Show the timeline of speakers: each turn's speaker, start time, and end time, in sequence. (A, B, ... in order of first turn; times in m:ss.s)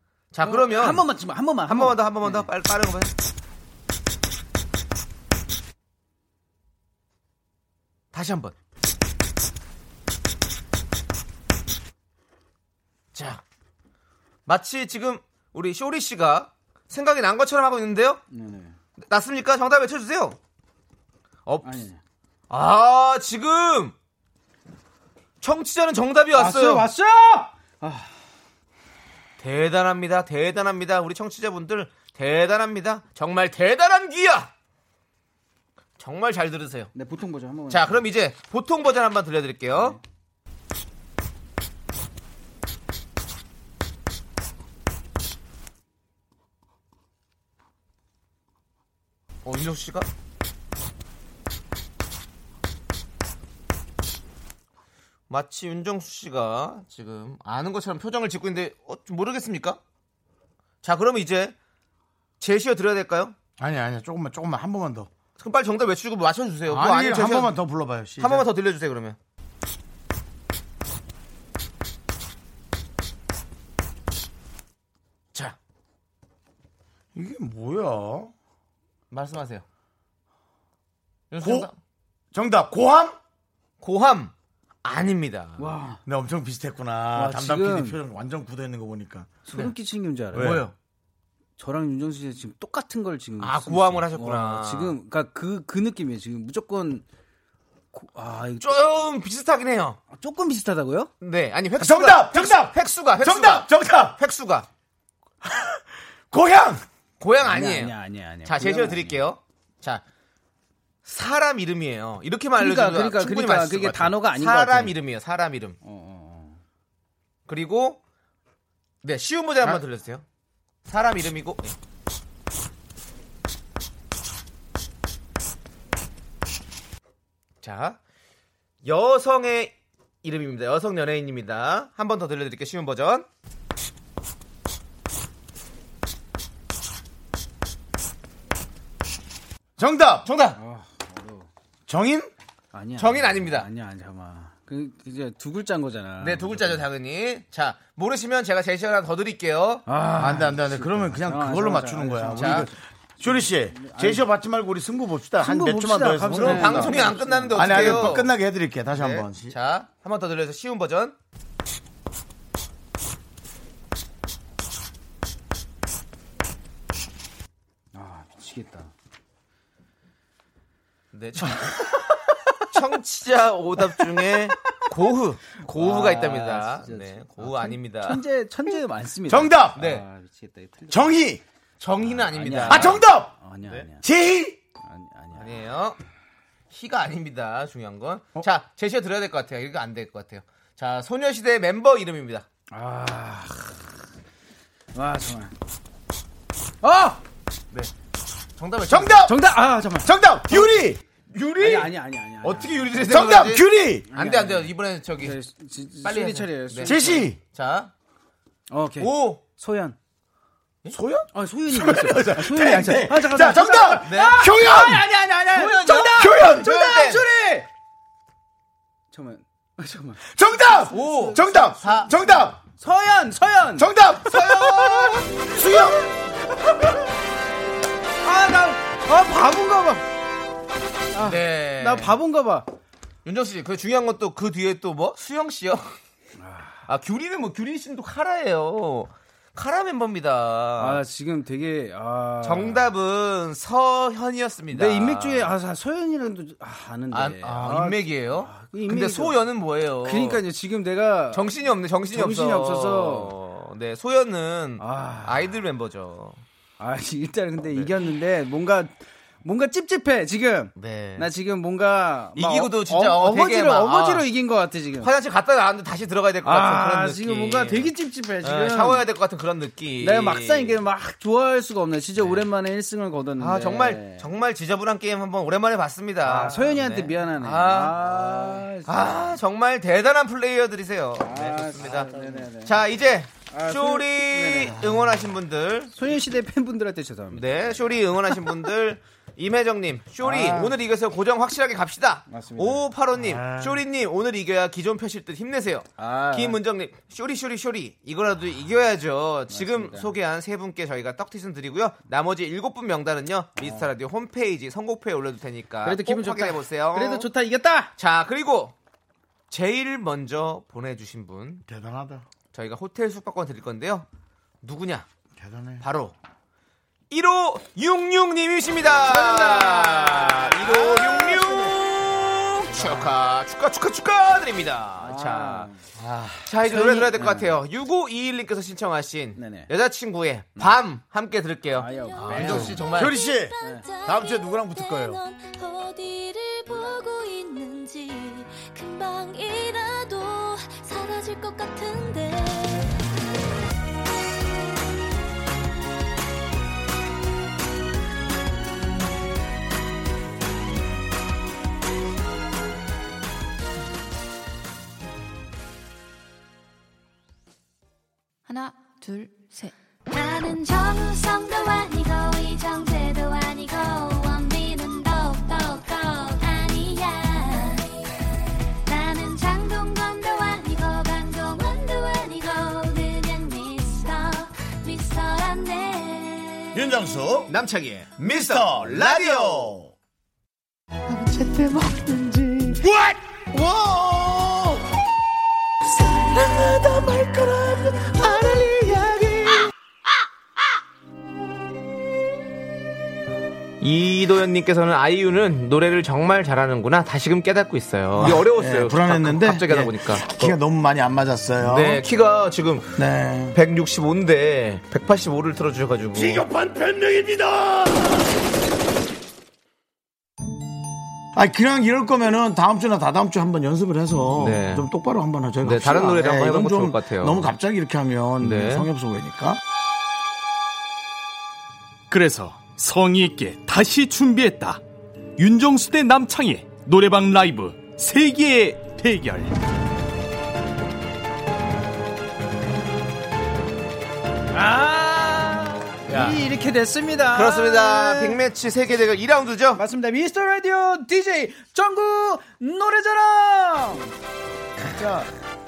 0:00.3-0:01.1 A
0:00.4-0:02.5 B
0:01.6-0:03.1 A
0:08.1-0:08.5 A
0:13.1-0:13.4 A
0:14.4-0:18.2 A
0:18.3-0:18.7 B
0:19.0-0:20.4 A
0:21.4-0:21.8 A
0:21.6-0:22.0 B
0:22.5-0:23.9 A
0:25.4-0:26.9 A
0:26.3-0:28.2 B
0:29.4-0:34.5 A
0:36.0-0:36.9 A
0:36.9-0:38.0 B
0:37.7-0:40.0 A
0:49.4-0:50.1 A
0:55.3-0:59.8 A
1:00.8-1:01.5 A
1:02.4-1:03.4 A
1:03.6-1:05.1 C
1:05.4-1:07.5 A
1:06.7-1:08.5 C
1:08.2-1:09.2 A
1:17.1-1:18.3 C
1:19.1-1:19.6 A
1:21.3-1:21.8 A
1:21.4-1:21.7 C
1:22.3-1:23.2 C
1:23.8-1:24.3 A
1:24.8-1:25.7 A
1:25.6-1:26.0 B
1:26.0-1:29.4 C
1:27.1-1:28.0 B
1:29.4-1:30.6 B
1:30.3-1:30.7 C
1:30.3-1:30.7 A
1:31.6-1:37.0 B
1:33.4-1:34.9 A
1:37.9-1:38.8 B
1:38.6-1:40.0 A
1:40.1-1:41.1 B
1:41.2-1:44.7 A
1:41.8-1:44.2 C
1:45.4-1:46.8 C
1:47.2-1:50.0 A
1:47.4-1:49.2 B
1:51.0-1:55.8 A
1:52.6-1:55.0 B
1:55.8-1:56.6 B
1:57.5-1:58.0 A
1:59.0-2:00.2 A
2:00.9-2:01.7 A
2:07.6-2:08.0 A
2:08.8-2:13.3 A
2:19.8-2:20.3 C
2:20.2-2:20.6 A
2:20.5-2:21.5 B
2:21.9-2:22.3 C
2:22.7-2:26.8 B
2:23.0-2:23.7 A
2:26.2-2:29.8 A
2:29.8-2:34.3 B
2:30.2-2:37.0 C
2:32.4-2:32.7 A
2:35.4-2:38.1 B
2:36.3-2:38.3 A
2:37.5-2:39.5 C
2:38.9-2:41.2 A
2:47.9-2:48.9 B
2:51.1-2:51.7 A
2:52.7-2:58.2 A
2:54.0-2:54.5 B
2:55.6-3:01.2 B
2:59.3-2:59.8 C
2:59.8-3:00.0 A
3:00.9-3:01.4 C
3:01.8-3:03.0 A
3:02.0-3:04.0 B
3:02.7-3:03.3 C
3:04.0-3:04.6 C
3:04.8-3:05.6 B
3:05.3-3:06.0 A
3:06.7-3:12.5 A
3:12.7-3:13.9 B
3:14.9-3:15.5 B
3:16.8-3:17.2 B
3:18.6-3:19.2 A
3:18.9-3:19.4 C
3:19.2-3:20.8 B
3:20.0-3:21.0 C
3:21.3-3:25.4 A
3:21.6-3:23.0 B
3:23.0-3:24.1 C
3:24.1-3:27.3 B
3:26.0-3:27.9 A
3:26.8-3:27.4 C
3:28.7-3:30.0 B
3:29.0-3:29.4 A
3:30.9-3:35.1 C
3:31.3-3:37.7 B
3:34.0-3:34.4 A
3:35.5-3:37.2 A
3:36.1-3:36.9 C
3:39.1-3:46.0 B
3:40.2-3:42.6 C
3:40.9-3:42.1 A
3:43.8-3:44.6 C
3:44.3-3:45.2 A
3:45.4-3:46.1 C
3:48.2-3:50.0 B
3:51.1-3:52.7 B
3:51.2-3:52.2 A
3:53.2-3:56.0 A
3:56.4-3:56.8 B
3:56.8-4:01.0 A
4:00.8-4:02.9 B
4:02.4-4:05.5 A
4:04.7-4:09.4 B
4:07.1-4:10.4 A
4:10.0-4:11.5 B
4:11.3-4:16.4 A
4:12.1-4:13.3 B
4:14.8-4:15.5 B
4:16.8-4:25.1 B
4:20.8-4:21.3 A
4:22.3-4:24.3 A
4:25.0-4:30.8 A
4:26.4-4:29.0 B
4:30.0-4:34.3 B
4:32.2-4:32.5 A
4:33.4-4:45.9 A
4:36.2-4:39.3 B
4:41.2-4:42.8 B
4:43.4-4:45.1 B
4:45.9-4:48.5 B
4:47.3-5:07.3 A
4:50.2-4:50.8 B
4:52.3-4:52.8 B
4:53.1-4:53.8 C
4:56.0-4:56.6 B
4:59.5-5:00.1 B
5:03.6-5:03.8 B
5:05.8-5:07.9 B
5:08.0-5:08.7 A
5:09.5-5:11.6 A
5:11.7-5:12.2 C
5:12.5-5:14.0 A
5:14.6-5:15.0 A
5:15.4-5:15.8 C
5:15.8-5:16.1 A
5:17.1-5:25.7 A
5:19.0-5:21.8 B
5:22.6-5:23.1 C
5:25.0-5:25.9 B
5:26.0-5:26.5 C
5:26.4-5:33.1 A
5:26.6-5:27.6 B
5:29.4-5:29.7 B
5:31.8-5:32.9 B
5:31.8-5:42.9 D
5:32.3-5:35.2 C
5:33.6-5:33.9 B
5:58.5-6:07.9 D
6:08.8-6:16.7 D
6:16.7-6:17.5 C
6:17.5-6:19.8 A
6:18.2-6:19.9 C
6:21.3-6:22.7 E
6:22.8-6:24.8 C
6:26.4-6:27.1 E
6:27.9-6:29.6 E
6:33.8-6:40.6 A
6:38.2-6:42.0 C
6:41.6-6:43.0 A
6:43.0-6:43.6 C
6:43.5-6:46.5 A
6:46.1-6:48.2 C
6:51.3-6:59.6 C
6:54.4-6:54.9 A
6:55.6-6:57.5 A
6:58.4-6:58.9 A
7:02.1-7:04.8 F
7:05.4-7:09.6 F
7:14.5-7:18.4 B
7:16.1-7:16.4 C
7:17.3-7:19.8 A
7:19.7-7:24.1 B
7:24.8-7:25.3 C